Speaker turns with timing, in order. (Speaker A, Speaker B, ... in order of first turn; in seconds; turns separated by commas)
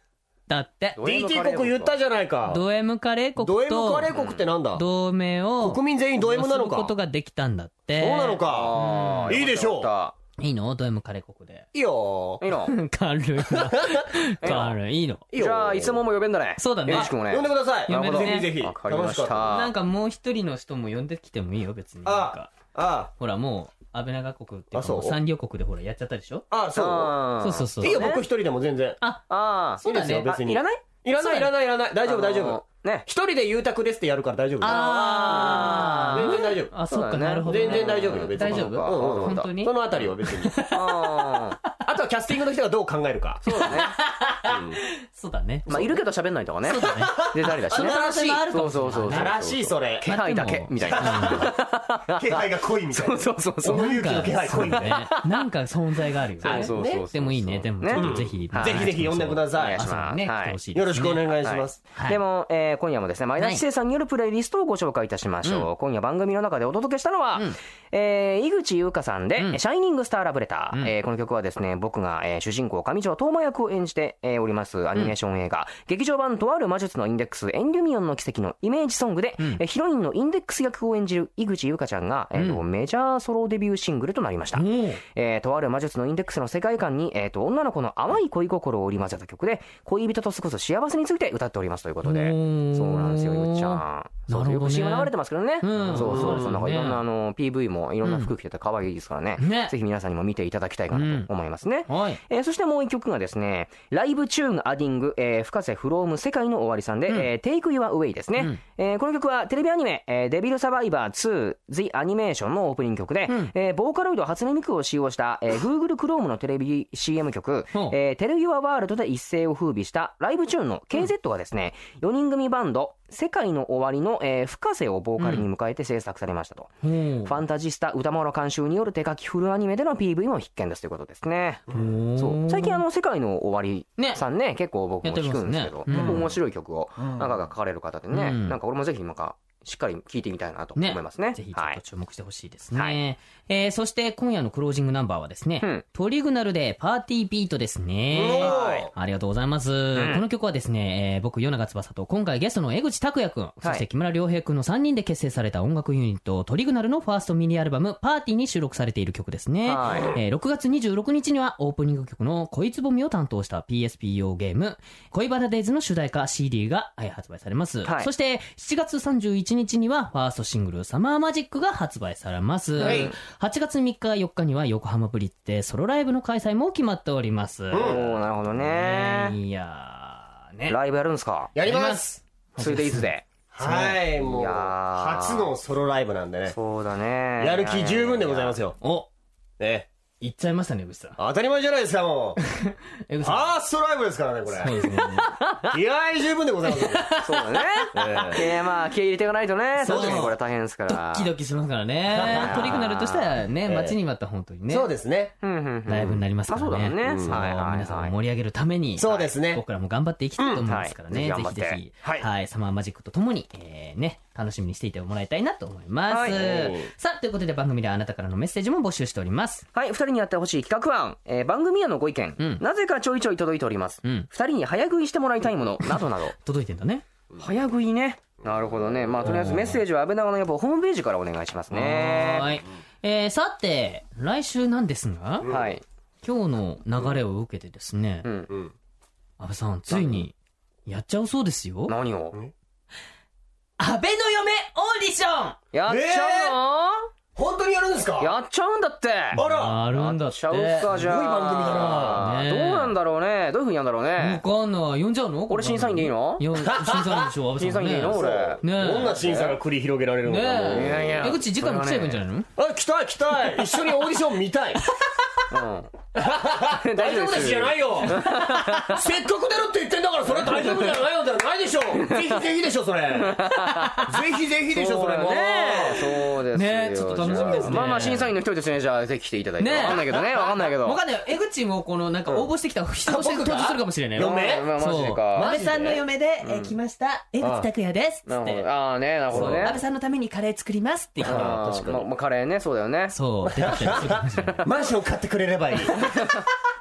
Speaker A: 0.5-1.0, Speaker B: 1.0-1.9, Speaker C: 1.0-2.6, Speaker A: 2.5-4.1, Speaker C: 3.4-4.8, Speaker B: 4.1-4.4, Speaker A: 4.7-9.4, Speaker C: 5.6-6.9, Speaker C: 8.0-8.8, Speaker B: 8.4-10.1, Speaker C: 9.3-9.9, Speaker A: 10.4-11.7, Speaker C: 11.7-12.4, Speaker B: 12.4-12.7, Speaker A: 12.7-15.2, Speaker C: 13.5-14.1, Speaker B: 14.4-14.7, Speaker C: 15.3-16.0, Speaker B: 15.3-19.7, Speaker A: 16.6-17.1, Speaker C: 16.9-19.5, Speaker A: 17.9-18.6, Speaker A: 19.5-22.5, Speaker C: 22.0-23.1, Speaker A: 23.2-26.4, Speaker C: 24.7-25.2, Speaker C: 26.5-27.2, Speaker B: 26.7-28.2, Speaker A: 27.4-28.1, Speaker C: 27.8-29.0, Speaker B: 29.3-33.1, Speaker A: 29.8-30.3, Speaker C: 29.8-36.7, Speaker A: 34.6-41.4, Speaker B: 34.6-39.5, Speaker C: 37.4-40.7, Speaker B: 40.7-41.6, Speaker C: 41.8-43.7, Speaker B: 43.4-43.9, Speaker A: 43.5-46.0, Speaker C: 44.5-44.8, Speaker B: 45.7-55.4, Speaker A: 46.6-49.3, Speaker C: 46.8-50.1, Speaker A: 50.0-51.5, Speaker C: 50.8-55.1, Speaker A: 53.6-61.2, Speaker C: 56.4-57.1, Speaker B: 56.4-58.9, Speaker C: 57.9-59.9, Speaker B: 59.5-60.6, Speaker C: 60.7-61.8, Speaker B: 61.4-126.7, Speaker A: 61.9-62.2, Speaker A: 63.4-63.6, Speaker A: 82.3-82.6, Speaker A: 84.5-85.0, Speaker A: 92.0-97.0, Speaker C: 95.8-96.5, Speaker A: 98.0-98.3, Speaker A: 99.4-99.7, Speaker A: 100.9-101.3, Speaker A: 101.8-102.2, Speaker A: 113.3-113.5, Speaker A: 125.2-125.5, Speaker A: 126.8-127.4, Speaker B: 127.2-131.6, Speaker A: 131.7-132.8, Speaker B: 132.2-141.8, Speaker A: 135.0-136.2, Speaker C: 135.9-136.3, Speaker A: 138.1-138.6, Speaker A: 140.8-178.0, Speaker C: 148.1-148.9, Speaker B: 148.4-148.8, Speaker B: 149.9-150.2, Speaker B: 159.6-160.1, Speaker B: 167.8-168.1, Speaker B: 172.8-173.1, Speaker C: 172.8-173.1, Speaker C: 177.7-178.2, Speaker B: 177.8-179.3, Speaker A: 178.5-180.8, Speaker B: 180.7-181.5, Speaker C: 181.5-182.2, Speaker A: 181.6-184.0, Speaker B: 182.6-183.2, Speaker C: 183.5-186.6, Speaker B: 184.2-185.5, Speaker B: 186.5-188.6, Speaker C: 187.4-188.8, Speaker A: 188.8-189.1, Speaker C: 189.6-189.9, Speaker A: 190.2-191.2, Speaker C: 191.2-192.4, Speaker A: 192.4-193.6, Speaker C: 193.2-194.7, Speaker A: 194.5-195.3, Speaker B: 195.2-195.7, Speaker C: 195.7-197.1, Speaker A: 196.7-198.4, Speaker B: 197.2-201.3, Speaker C: 197.9-198.6, Speaker A: 199.8-200.3, Speaker C: 199.8-200.3, Speaker A: 200.9-204.9, Speaker C: 202.1-202.8, Speaker B: 202.2-203.4, Speaker C: 203.7-204.0, Speaker C: 204.7-205.3, Speaker B: 205.4-208.1, Speaker A: 205.9-219.7, Speaker C: 207.0-207.4, Speaker C: 209.0-209.6, Speaker B: 209.0-209.3, Speaker C: 210.4-210.6, Speaker B: 210.6-211.8, Speaker B: 216.1-216.7, Speaker C: 216.3-216.8, Speaker B: 219.7-226.3, Speaker A: 225.8-227.0, Speaker B: 227.4-232.5, Speaker C: 228.4-229.5, Speaker A: 229.2-229.8, Speaker A: 231.7-235.5, Speaker C: 235.4-235.7, Speaker B: 235.5-235.8, Speaker A: 236.2-238.3, Speaker B: 238.2-238.5, Speaker A: 239.4-240.3, Speaker B: 239.9-240.3, Speaker A: 240.8-241.9, Speaker B: 241.9-242.4, Speaker A: 243.8-245.6, Speaker B: 245.7-247.1, Speaker C: 245.8-246.6, Speaker C: 247.3-248.3, Speaker B: 248.2-254.4, Speaker C: 249.3-249.8, Speaker A: 249.3-250.9, Speaker C: 250.9-252.2, Speaker A: 251.7-252.9, Speaker A: 254.2-259.1, Speaker B: 255.5-256.4, Speaker C: 256.6-257.3, Speaker B: 257.6-259.6, Speaker C: 258.1-261.4, Speaker A: 260.2-262.5, Speaker B: 260.7-262.2, Speaker C: 262.6-264.9, Speaker B: 265.5-265.9, Speaker C: 266.1-273.4, Speaker B: 266.7-269.0, Speaker A: 268.1-268.9, Speaker B: 270.3-271.0, Speaker B: 271.9-272.5, Speaker B: 273.1-274.1, Speaker A: 273.8-274.0, Speaker C: 274.0-276.2, Speaker B: 274.7-281.0, Speaker A: 276.5-278.3, Speaker C: 277.2-278.1, Speaker A: 279.6-288.7, Speaker C: 283.0-286.0, Speaker B: 284.2-285.5, Speaker B: 286.4-286.7, Speaker C: 287.4-287.7, Speaker B: 288.3-289.8, Speaker C: 289.3-289.8, Speaker A: 289.3-291.6, Speaker C: 291.2-292.1, Speaker B: 291.2-293.1, Speaker A: 293.1-294.7, Speaker C: 293.4-296.2, Speaker B: 296.1-296.4